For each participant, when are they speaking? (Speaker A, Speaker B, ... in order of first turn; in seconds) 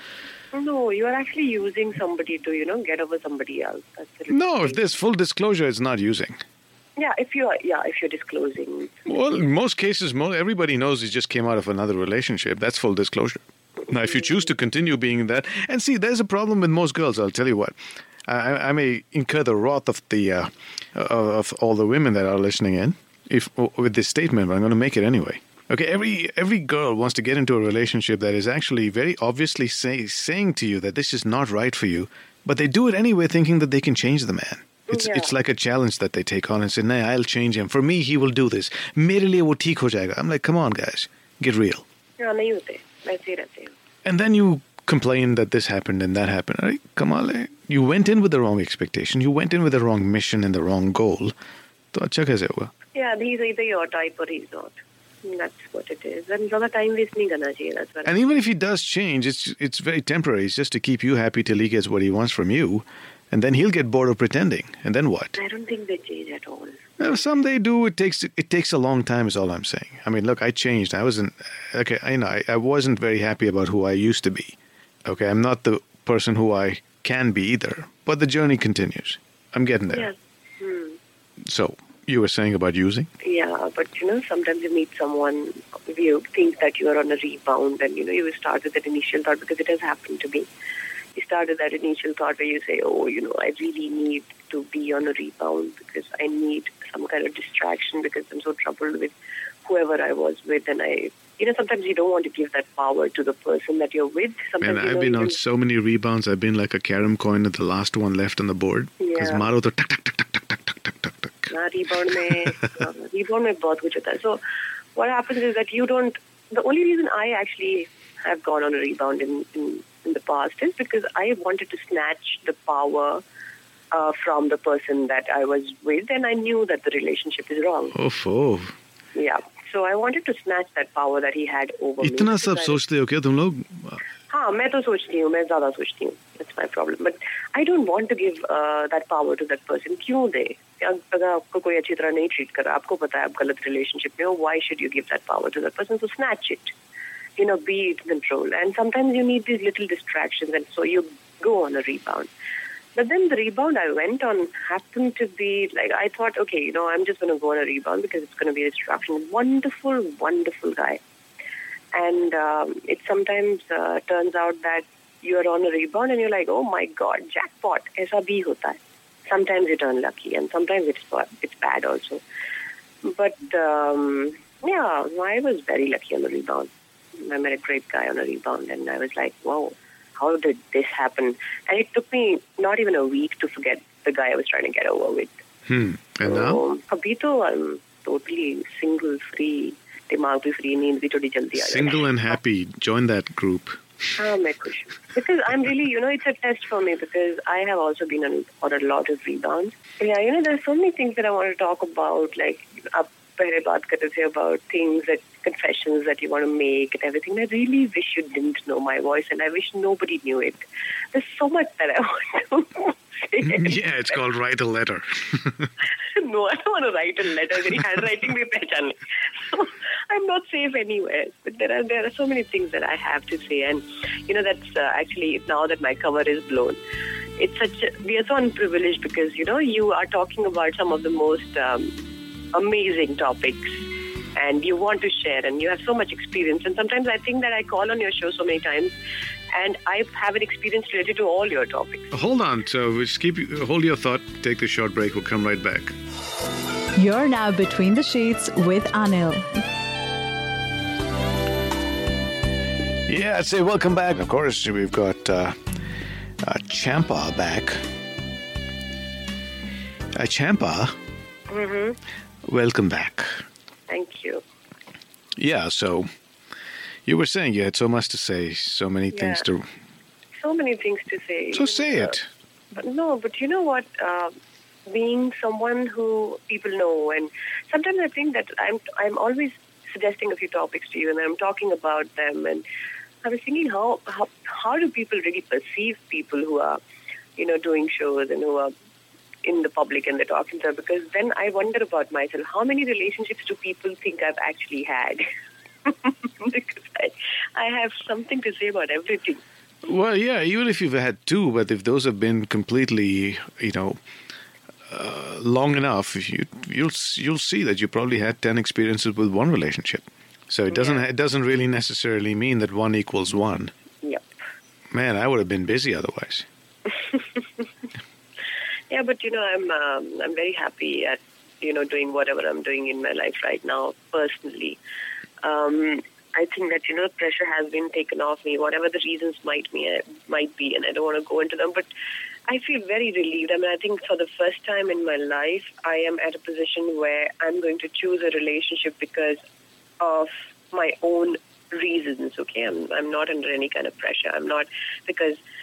Speaker A: 0.5-4.8, 7.0-9.0, 14.1-14.3, 34.9-35.3, 42.2-43.7, 52.9-58.1, 65.3-67.1, 79.9-81.0, 83.2-90.5, 91.1-105.4, 109.0-109.4, 111.5-114.4, 114.9-123.2, 123.9-127.9, 129.1-132.8, 134.3-146.7, 147.4-152.3, 152.9-161.0, 161.9-172.2, 173.0-185.3, 186.2-192.0, 194.2-210.6, 211.1-214.2, 216.1-226.8, 227.4-231.9, 232.5-238.9, 239.5-242.1, 261.5-262.0, 263.9-264.4, 269.1-269.4, 270.4-272.1, 272.7-274.3, 274.9-282.6, 283.2-286.8, 287.4-288.7, 289.4-295.2, 295.9-299.4, 310.7-311.0, 316.9-317.6, 318.9-324.8, 325.4-331.9, 332.5-339.4, 340.0-345.4
Speaker B: 4.3-6.4, 9.1-41.8, 44.0-51.3, 51.9-52.7, 58.0-65.4, 67.0-80.1, 81.4-83.1, 104.6-111.5, 112.1-112.5, 127.9-128.7, 132.0-134.0, 185.7-186.6, 191.5-193.8, 213.4-215.7, 242.1-245.9, 253.1-255.6, 256.4-257.8, 260.1-260.9, 262.5-263.4, 265.4-266.1, 267.1-269.7, 271.5-272.3, 299.9-304.0, 304.9-313.7, 314.9-316.5
Speaker C: 247.0-249.5